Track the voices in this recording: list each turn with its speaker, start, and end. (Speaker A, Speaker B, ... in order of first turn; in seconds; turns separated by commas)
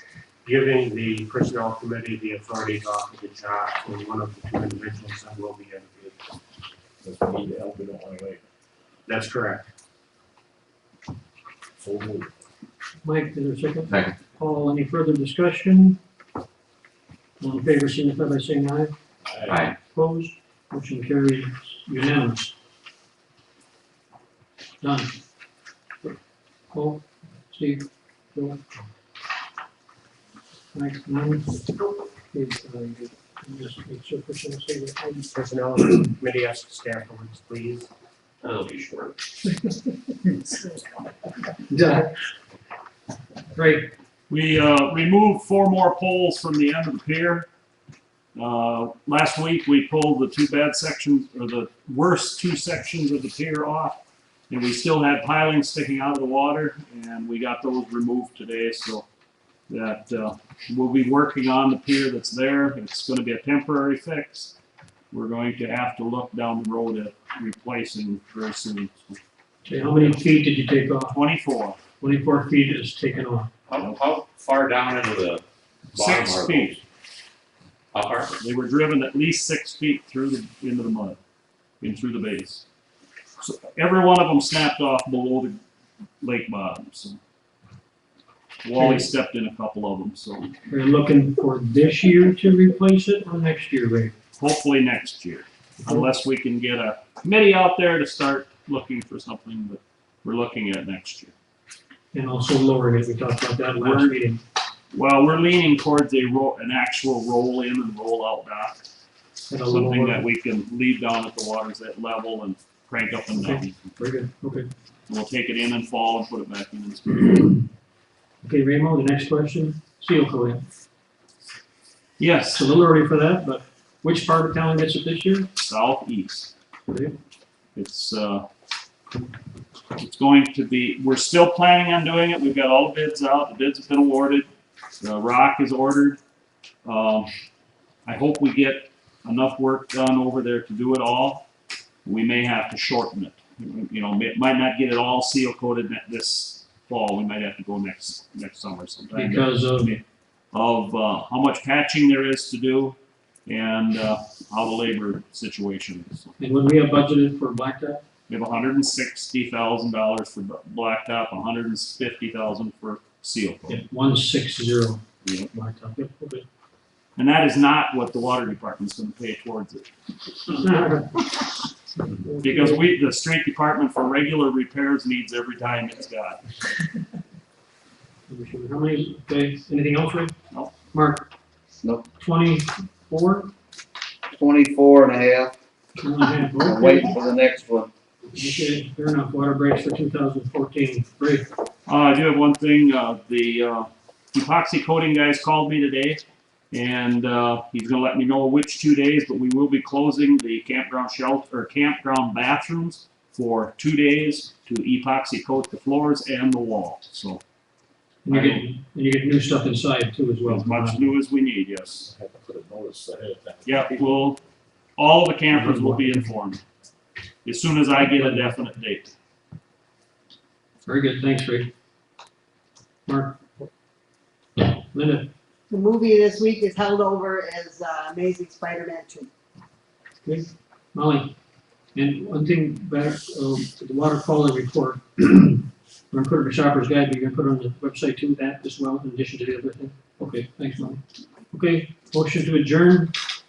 Speaker A: 0.4-6.2, Speaker B: 7.0-8.4, Speaker A: 9.1-9.7, Speaker B: 11.8-12.3, Speaker C: 13.0-16.0, Speaker C: 17.4-18.9, Speaker B: 19.2-19.7, Speaker C: 19.9-22.6, Speaker C: 24.8-25.2, Speaker C: 26.7-28.6, Speaker C: 30.7-35.3, Speaker A: 35.3-37.9, Speaker D: 38.4-39.1, Speaker C: 41.7-42.1, Speaker C: 43.5-43.9, Speaker E: 44.3-47.5, Speaker E: 48.4-59.1, Speaker E: 59.7-64.6, Speaker E: 65.1-69.2, Speaker C: 69.7-71.2, Speaker E: 71.1-71.8, Speaker C: 72.0-73.5, Speaker D: 73.7-76.8, Speaker E: 75.9-76.8, Speaker D: 77.9-78.4, Speaker E: 78.4-81.2, Speaker E: 81.8-82.7, Speaker E: 83.4-85.6, Speaker E: 86.2-87.2, Speaker E: 88.6-90.5, Speaker C: 88.8-89.1, Speaker C: 90.7-94.2, Speaker E: 94.4-101.3, Speaker C: 102.1-104.4, Speaker E: 103.8-104.2, Speaker E: 104.9-108.8, Speaker C: 109.5-110.2, Speaker E: 109.7-113.8, Speaker C: 113.3-114.7, Speaker E: 115.1-117.7, Speaker C: 118.4-120.6, Speaker E: 122.2-122.7, Speaker C: 122.5-125.5, Speaker E: 125.6-126.5, Speaker C: 126.9-127.2, Speaker E: 127.8-128.5, Speaker E: 130.0-134.5, Speaker E: 135.0-136.2, Speaker E: 136.8-137.3, Speaker E: 138.1-141.5, Speaker E: 142.1-150.0, Speaker C: 149.1-150.0, Speaker E: 150.5-156.3, Speaker C: 156.4-158.0, Speaker E: 158.3-163.8, Speaker C: 163.7-166.5, Speaker E: 165.2-165.5, Speaker E: 167.2-169.9, Speaker C: 170.5-171.4, Speaker C: 172.0-172.9, Speaker E: 172.4-176.4, Speaker C: 178.3-180.3, Speaker C: 180.9-181.3, Speaker C: 182.2-183.5, Speaker F: 184.3-185.5, Speaker C: 186.0-187.1, Speaker F: 186.6-187.9, Speaker C: 188.3-191.5, Speaker E: 191.9-207.4, Speaker C: 208.2-211.1, Speaker E: 208.3-208.7, Speaker E: 210.4-212.1, Speaker B: 212.1-214.4, Speaker E: 213.7-214.4, Speaker E: 215.0-216.6, Speaker C: 215.5-216.2, Speaker E: 217.4-219.2, Speaker C: 218.0-218.6, Speaker C: 220.8-221.7, Speaker C: 223.1-223.7, Speaker C: 224.6-225.3, Speaker G: 225.7-229.3, Speaker C: 230.2-231.3, Speaker C: 231.9-243.1